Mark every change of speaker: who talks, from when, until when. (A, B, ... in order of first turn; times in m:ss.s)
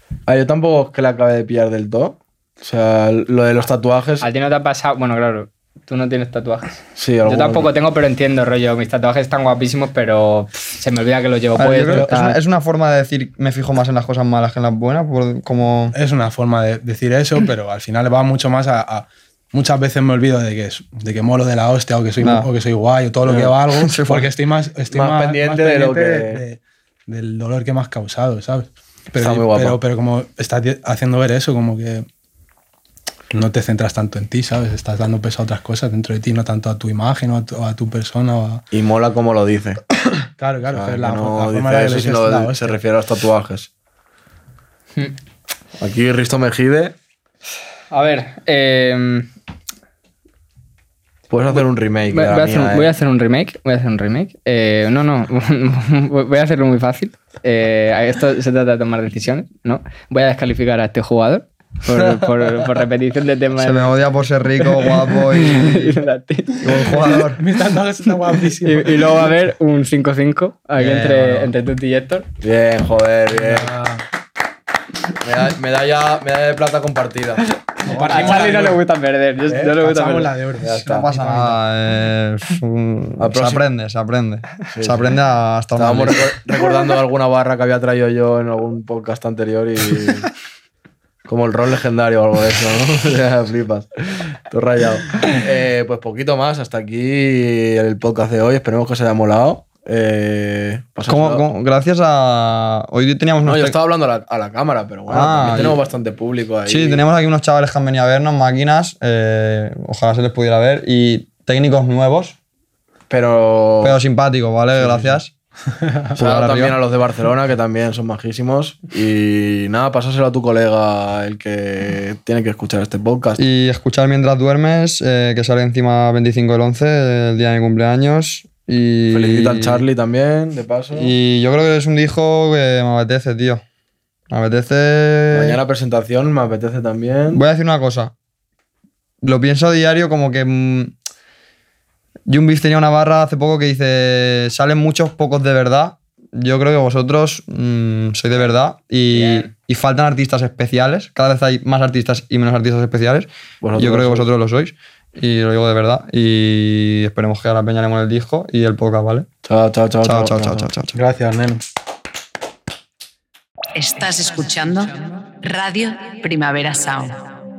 0:00.3-0:04.3 A
0:04.2-0:12.4 B
0:07.0-0:07.7 A
0:11.6-0:16.0 C
0:11.9-0:12.2 D
0:15.9-0:32.1 D
0:22.2-0:22.5 C
0:23.3-0:23.6 A
0:23.7-0:24.3 C
0:24.9-0:26.4 A
0:29.2-0:29.8 A
0:33.3-0:38.6 D
0:38.7-0:39.8 A
0:40.4-0:42.8 D
0:40.7-0:43.7 A
0:45.8-0:47.0 A
0:47.9-0:49.3 B
0:51.3-0:52.9 A
0:51.6-1:04.0 B
1:03.6-1:06.0 C
1:04.6-1:07.2 B
1:06.6-1:07.4 C
1:07.0-1:09.3 D
1:08.6-1:12.3 B
1:10.8-1:11.5 C
1:12.4-1:13.7 A
1:13.4-1:14.0 D
1:15.2-1:18.6 A
1:17.8-1:20.3 B
1:17.8-1:18.8 D
1:19.5-1:19.8 A
1:19.8-1:21.6 D
1:20.6-1:21.1 A
1:20.8-1:26.3 C
1:23.2-1:23.6 A
1:24.7-1:25.1 A
1:25.8-1:30.3 A
1:31.3-1:41.4 A
1:41.1-1:43.8 C
1:43.5-1:47.0 A
1:45.1-1:45.8 C
1:46.6-1:52.4 C
1:53.1-1:54.0 A
1:53.8-1:55.3 C
1:54.8-1:55.2 A
1:56.1-1:56.8 C
1:56.2-2:03.4 A
2:03.4-2:09.9 C
2:09.1-2:11.1 A
2:10.9-2:13.6 C
2:14.3-2:15.6 C
2:15.3-2:17.4 A
2:17.3-2:18.1 C
2:19.2-2:20.9 C
2:22.3-2:39.3 C
2:29.1-2:29.5 B
2:33.6-2:34.3 A
2:39.4-2:40.7 A
2:40.0-2:41.0 C
2:40.9-2:41.6 D
2:43.7-2:47.2 E